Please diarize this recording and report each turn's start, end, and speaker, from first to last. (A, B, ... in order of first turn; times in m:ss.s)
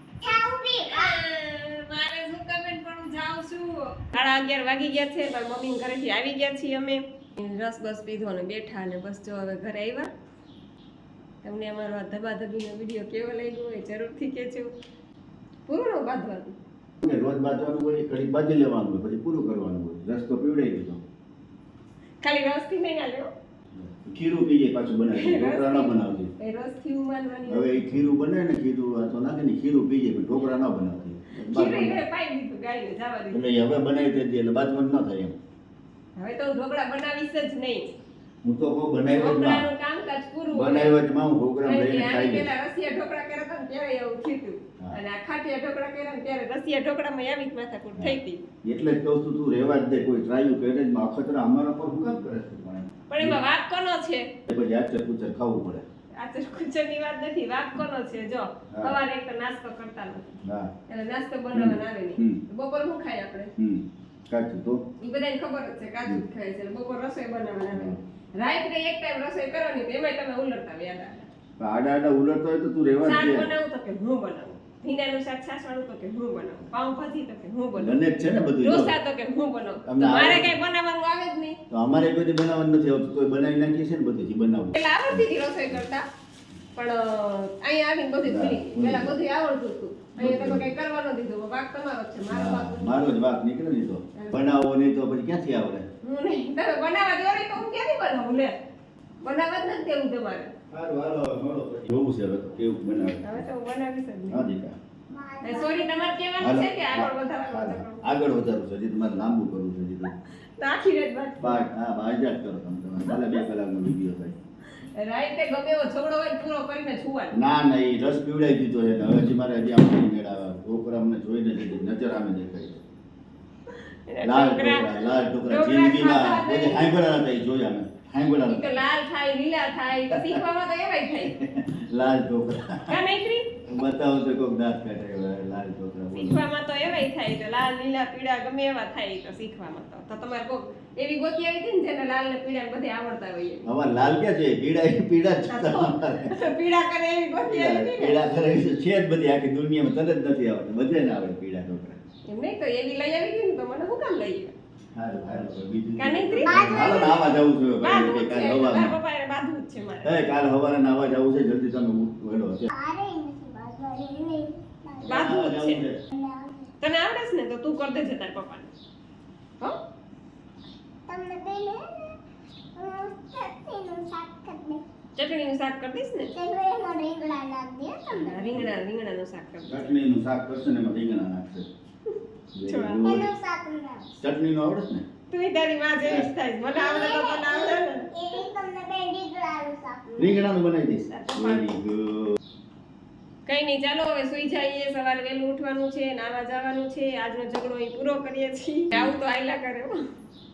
0:00.2-0:01.2 A
0:00.9-0:10.1 B
0:11.4-0:14.7 B
0:15.7-0:16.6 B
0:17.0-0:21.0 C
0:22.2-0:23.3 B
0:23.7-0:26.3 C
0:25.1-0:27.8 B
0:27.5-0:32.0 C
0:31.3-0:33.4 B
0:33.3-0:35.4 C
0:36.2-0:37.9 B
0:38.4-0:39.7 C
0:39.1-0:41.0 B
0:40.5-0:42.5 C
0:41.6-0:48.4 B
0:48.0-0:53.4 C
0:53.1-0:54.3 B
0:54.5-0:55.8 C
0:56.2-1:00.4 B
0:58.7-0:59.0 C
1:00.4-1:00.7 C
1:00.9-1:03.5 B
1:01.5-1:02.4 C
1:03.6-1:04.8 C
1:05.0-1:11.3 B
1:07.7-1:08.0 C
1:11.6-1:13.5 C
1:13.0-1:18.0 B
1:17.8-1:18.9 C
1:18.6-1:21.6 B
1:19.8-1:20.6 C
1:21.7-1:25.8 C
1:24.7-1:26.1 B
1:26.8-1:33.1 B
1:28.2-1:29.2 C
1:30.2-1:30.7 C
1:32.3-1:35.9 C
1:34.2-1:34.4 B
1:36.0-1:38.6 B
1:39.2-1:40.5 B
1:40.7-1:43.5 C
1:43.2-1:44.5 B
1:44.3-1:44.8 C
1:45.1-1:46.1 A
1:45.4-1:48.0 B
1:46.4-1:50.1 C
1:50.6-1:51.6 B
1:51.4-1:54.4 C
1:53.0-1:53.4 B
1:54.8-1:57.3 B
1:57.3-2:02.8 C
2:03.7-2:06.9 B
2:04.2-2:08.7 C
2:08.4-2:11.4 B
2:10.1-2:10.4 C
2:11.4-2:13.0 C
2:12.9-2:13.6 B
2:13.7-2:16.4 C
2:16.1-2:23.7 B
2:23.6-2:26.4 C
2:25.5-2:28.2 B
2:27.4-2:32.0 C
2:32.3-2:34.5 B
2:35.0-2:39.0 C
2:36.0-2:37.2 B
2:36.4-2:37.3 A
2:37.8-2:40.2 B
2:40.0-2:42.7 C
2:42.7-2:45.3 A
2:45.0-2:45.8 B
2:45.0-2:46.0 C
2:46.1-2:46.7 A
2:46.8-2:48.7 B
2:51.1-2:52.2 A
2:52.8-2:54.8 A
2:55.2-2:56.4 B
2:56.3-2:58.6 A
2:58.1-2:59.9 B
2:59.7-3:01.7 C
3:02.5-3:03.3 C
3:02.6-3:03.1 B
3:03.0-3:04.1 A
3:04.2-3:05.1 C
3:05.3-3:08.1 B
3:06.7-3:10.0 A
3:10.1-3:10.5 B
3:10.2-3:12.4 C
3:11.1-3:11.7 B
3:13.5-3:20.0 B